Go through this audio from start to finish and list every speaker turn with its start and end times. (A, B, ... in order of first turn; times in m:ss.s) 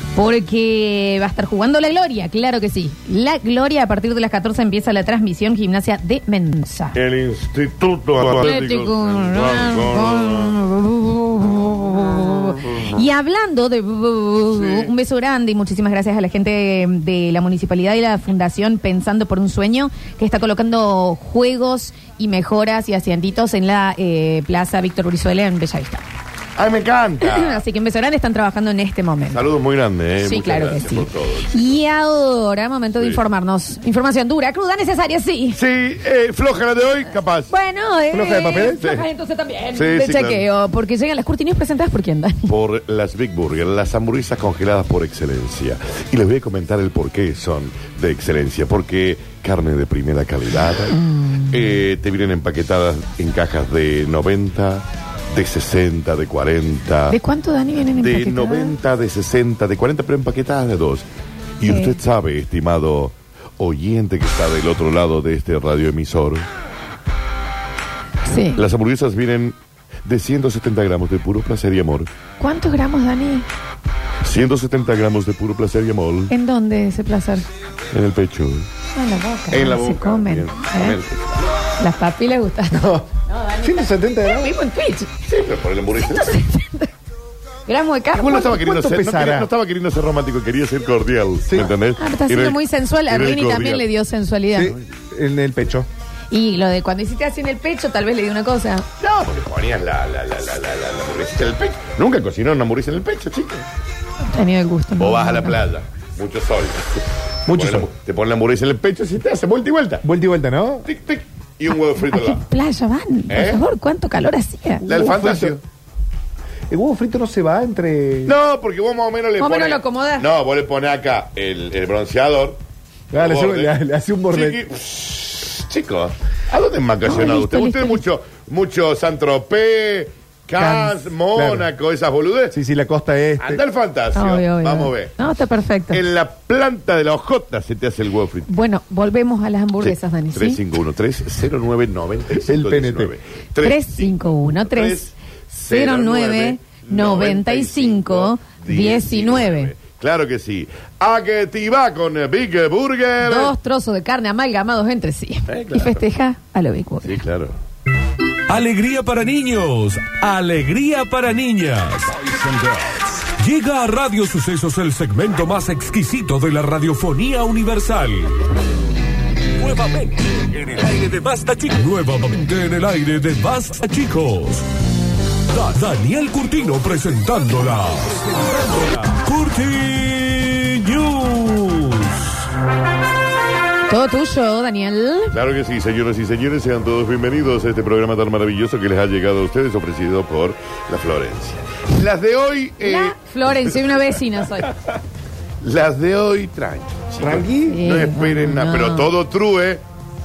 0:00.2-0:07.0 A
0:07.0-0:10.6 B
0:08.3-0:26.0 A
0:14.5-0:14.9 B
0:26.6-0:27.6 B
0:27.2-0:29.4 A
0:29.3-0:31.8 B
0:30.2-0:35.6 A
0:35.5-0:37.5 B
0:37.5-0:42.5 A
0:38.1-0:38.8 C
0:38.8-0:39.1 B
0:39.7-0:40.4 B
0:42.5-0:51.0 B
0:51.0-0:51.3 A
0:51.5-0:57.2 B
0:57.1-0:58.8 A
0:57.9-1:01.1 B
1:01.6-1:06.5 B
1:01.6-1:02.0 A
1:08.3-1:08.6 A
1:08.6-1:12.1 B
1:12.4-1:13.5 A
1:14.2-1:16.3 B
1:16.3-1:17.4 A
1:17.9-1:18.7 B
1:18.9-1:21.0 A
1:19.5-1:21.4 B
1:21.8-1:25.1 A
1:22.7-1:23.1 C
1:23.6-1:24.5 C
1:25.3-1:26.4 B
1:26.0-1:26.9 A
1:27.7-1:28.6 A
1:28.1-1:33.9 B
1:28.4-1:29.5 C
1:32.0-1:34.8 A
1:34.5-1:35.9 C
1:34.6-1:34.9 B
1:36.3-1:38.8 A
1:39.0-1:43.7 B
1:44.3-1:45.6 A
1:45.0-1:50.0 B
1:47.5-1:47.9 C
1:50.0-1:50.9 C
1:50.8-1:52.4 B
1:52.0-1:54.8 A
1:53.3-1:53.6 B
1:54.8-1:55.6 C
1:54.9-1:55.6 B
1:56.7-1:58.3 C
1:58.3-2:02.6 B
1:59.4-2:00.3 A
2:03.1-2:04.6 C
2:03.1-2:03.8 B
2:04.3-2:12.6 B
2:07.0-2:08.0 A
2:10.6-2:11.7 C
2:12.5-2:13.6 C
2:13.4-2:15.1 B
2:14.1-2:16.0 A
2:15.9-2:18.5 B
2:18.5-2:20.6 A
2:19.8-2:33.5 B
2:22.4-2:23.1 C
2:23.6-2:25.0 A
2:25.7-2:29.7 A
2:33.2-2:37.2 A
2:35.5-2:36.0 B
2:37.0-2:37.6 B
2:38.5-2:48.3 D
2:49.6-2:54.6 D
2:55.5-3:01.8 D
3:03.9-3:05.4 A
3:05.3-3:14.2 B
3:12.8-3:14.7 A
3:15.6-3:19.8 B
3:17.2-3:17.8 C
3:17.7-3:19.1 A